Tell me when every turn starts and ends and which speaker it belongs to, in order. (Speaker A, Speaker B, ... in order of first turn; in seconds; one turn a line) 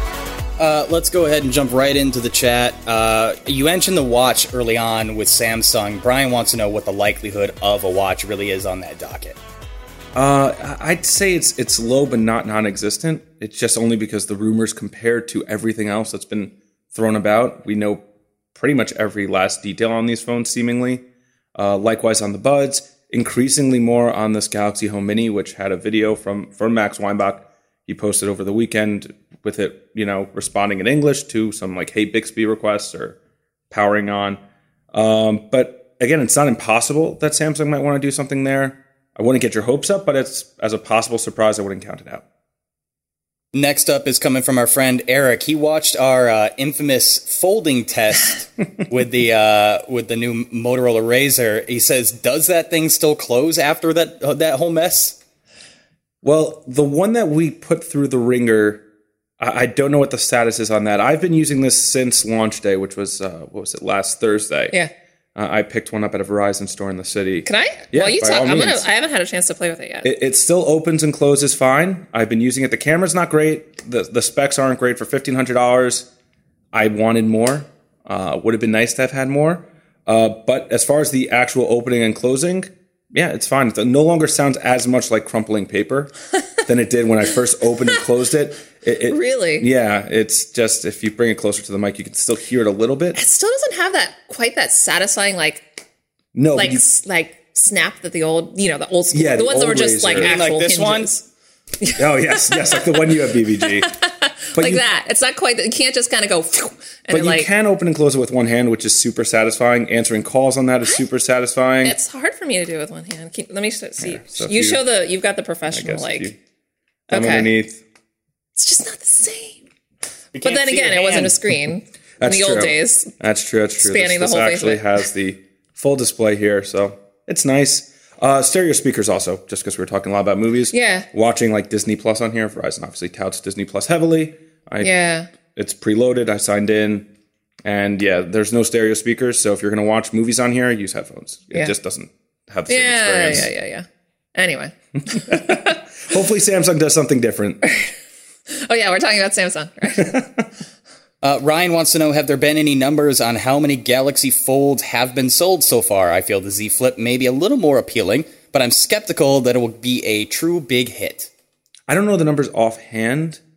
Speaker A: 0.6-9.4
Speaker B: 10.2-18.0
Speaker B: 18.6-21.0
Speaker B: 21.6-33.2
Speaker B: 33.7-34.4
Speaker B: 34.9-42.2
Speaker A: 43.5-55.2
Speaker B: 56.2-58.8
Speaker B: 59.4-64.7
Speaker B: 65.4-68.8
Speaker C: 67.5-70.1
Speaker B: 70.0-76.1
Speaker B: 76.7-86.1
Speaker B: 86.7-93.2
Speaker C: 89.1-89.7
Speaker C: 93.2-95.7
Speaker B: 96.3-96.8
Speaker C: 96.6-101.3
Speaker B: 99.1-100.3
Speaker A: 100.2-101.1
Speaker C: 101.8-107.5
Speaker B: 102.0-103.9
Speaker B: 104.5-104.8
Speaker B: 107.1-112.0
Speaker C: 111.8-116.3
Speaker B: 114.0-114.8
Speaker B: 115.7-116.4
Speaker B: 117.1-117.8
Speaker C: 117.1-117.5
Speaker C: 118.6-119.6
Speaker A: 120.3-121.4
Speaker C: 120.4-123.1
Speaker B: 122.2-134.9
Speaker C: 123.8-125.0
Speaker C: 130.7-131.1
Speaker C: 134.8-135.3
Speaker B: 135.5-137.1
Speaker B: 137.7-143.5
Speaker C: 142.7-145.8
Speaker B: 145.1-147.6
Speaker C: 147.7-147.9
Speaker C: 148.5-150.2
Speaker B: 150.0-150.4
Speaker A: 151.2-161.3
Speaker B: 161.9-163.4